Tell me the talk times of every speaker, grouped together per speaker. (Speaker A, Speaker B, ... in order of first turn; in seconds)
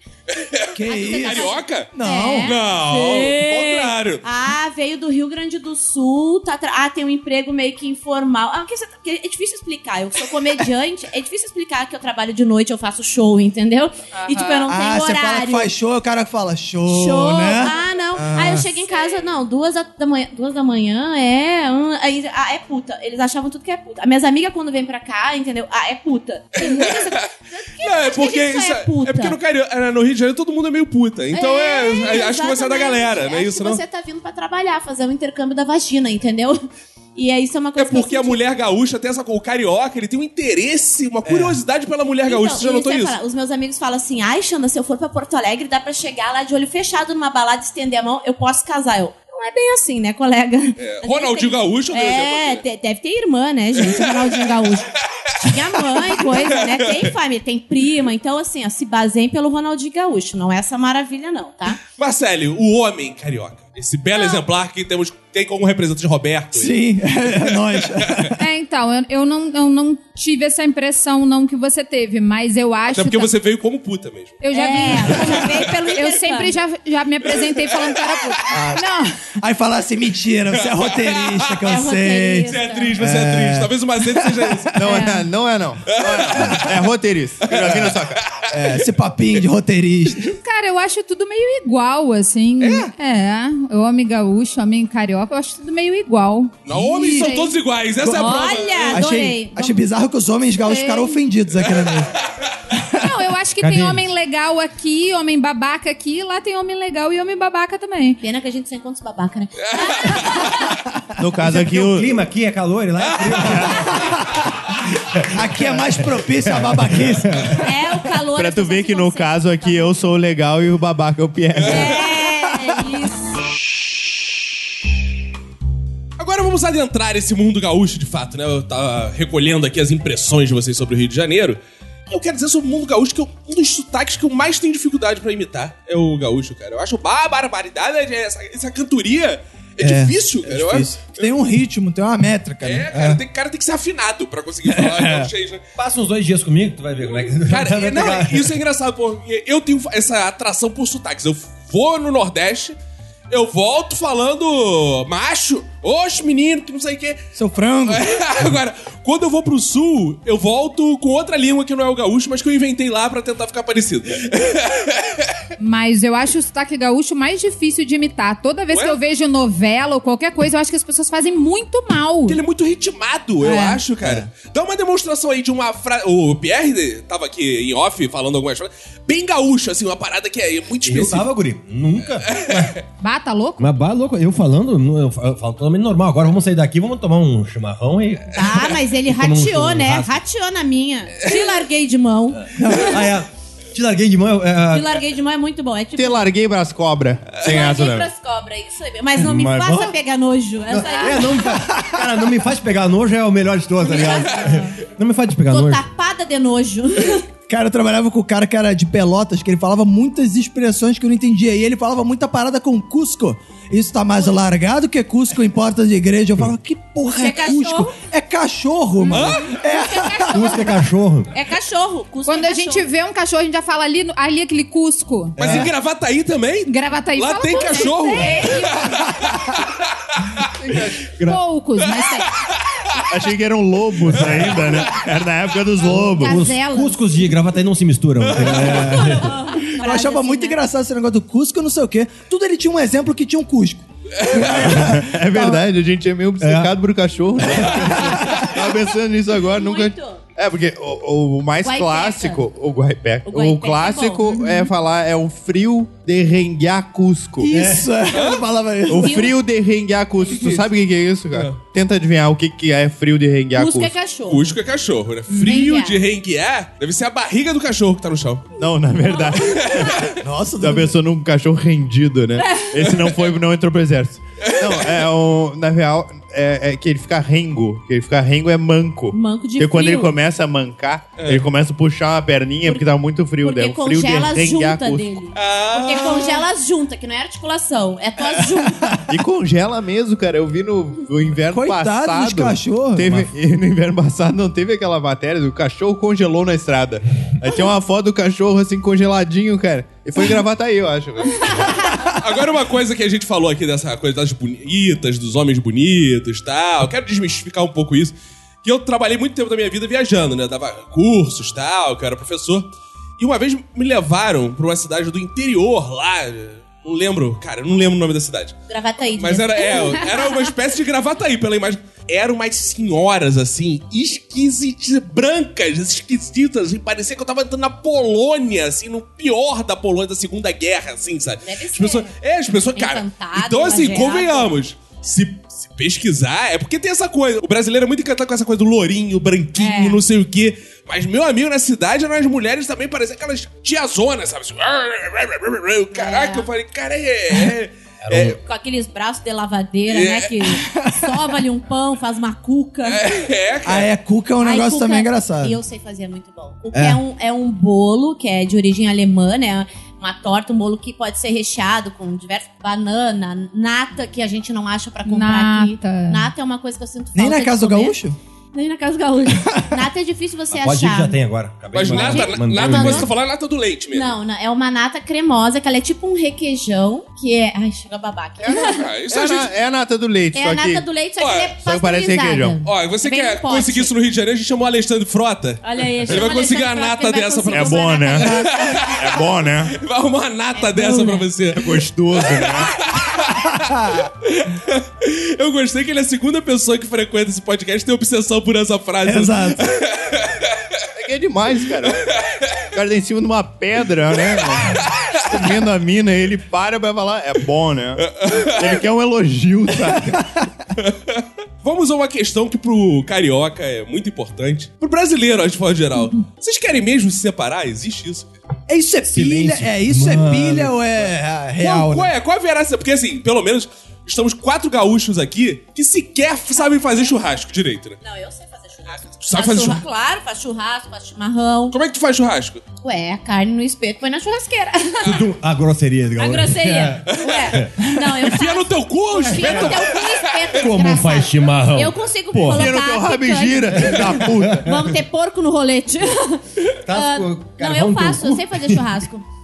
Speaker A: 0.3-4.2, 26.6-27.3, 27.8-33.8, 37.8-43.1, 50.8-52.6, 53.8-54.3, 55.7-56.7, 62.0-66.8, 67.3-68.3, 72.9-74.4, 74.9-75.7, 80.6-81.5, 82.5-84.8, 86.0-86.7, 87.5-88.8, 92.6-92.9, 96.7-99.0, 109.7-110.6, 113.0-113.8, 121.6-121.9, 126.2-141.3, 142.6-145.6, 147.1-152.8, 153.3-157.2, 157.9-165.3, 168.7-169.0, 172.3-181.3, 182.3-182.8, 219.1-219.5, 225.4-229.7, 234.1-234.9, 238.2-239.1, 244.2-244.6, 264.3-268.5, 269.5-270.1, 272.8-273.3, 274.4-275.1, 281.2-281.5, 285.3-286.4, 302.2-312.7, 313.2-318.6, 319.2-348.4, 349.9-350.6, 352.9-353.9, 371.7-374.1, 378.5-379.5, 381.2-381.5, 382.6-393.4, 394.2-400.4, 408.0-408.8, 410.8-418.3, 421.6-428.0, 428.9-429.8, 431.7-432.6, 437.1-440.7
Speaker B: 0.8-2.6, 14.7-18.8, 41.3-41.6, 66.5-68.3, 78.5-85.0, 88.5-90.3, 96.7-97.5, 98.0-102.1, 113.9-114.3, 115.3-117.6, 139.8-143.2, 144.7-145.3, 157.4-158.0, 192.6-193.0, 201.7-202.0, 207.5-220.6, 239.8-245.7, 247.8-248.4, 257.4-259.2, 260.3-260.6, 270.2-270.9, 291.5-293.2, 350.7-351.1, 353.6-355.6, 356.7-357.0, 367.1-368.2, 369.5-369.8, 393.5-394.1, 399.0-399.7, 418.7-422.1
Speaker C: 0.9-15.7, 16.9-29.4, 31.3-36.6, 37.1-38.4, 42.3-61.8, 64.2-64.4, 74.5-76.5, 81.7-82.9, 98.1-99.8, 108.2-110.7, 117.6-120.0, 121.7-123.4, 188.3-192.9, 194.7-196.3, 197.4-201.5, 203.8-204.6, 205.5-207.3, 217.2-218.0, 221.3-222.9, 227.5-228.8, 235.8-237.1, 239.0-240.6, 249.5-250.2, 251.6-252.4, 253.3-254.7, 259.0-259.4, 263.6-264.6, 265.4-266.0, 269.0-270.1, 272.4-272.7, 279.1-280.2, 282.6-282.9, 283.4-289.0, 318.7-320.1, 331.4-332.1, 332.8-334.5, 339.6-340.0, 345.9-346.5, 348.4-353.0, 354.4-368.0, 368.5-371.1, 371.9-373.1, 373.9-378.9, 380.3-383.9, 385.6-388.9, 390.6-391.3, 426.5-427.4, 428.0-431.8, 432.8-435.2, 436.2-449.2
Speaker D: 68.4-73.3, 74.4-79.2, 84.9-85.2, 90.4-97.5, 100.6-101.2, 103.0-108.2, 165.6-172.4, 173.4-173.8, 183.0-183.7, 219.0-219.3, 219.9-220.7, 222.3-225.4, 226.7-229.0, 231.2-232.3, 265.3-265.6, 365.1-366.3
Speaker E: 84.8-88.2, 111.2-112.2, 118.3-122.0, 196.0-198.1, 230.6-231.0, 233.1-236.4, 244.5-257.6, 258.9-264.0, 268.6-285.1, 289.1-301.8, 378.4-380.9, 381.6-382.6, 387.5-389.8, 391.5-392.9, 401.0-402.1, 402.7-410.2, 442.4-444.9
Speaker F: 103.6-104.1, 111.4-114.0, 115.7-117.5, 145.8-148.6, 180.8-182.8, 183.6-190.2, 192.8-195.0, 199.2-199.9, 200.7-205.8, 220.3-221.3, 225.4-225.7, 236.2-239.4, 246.4-246.8, 257.5-257.9, 348.0-348.4, 370.5-373.1, 419.1-421.1, 435.1-437.8, 439.2-439.8, 440.6-442.7, 443.8-444.7, 446.9-448.8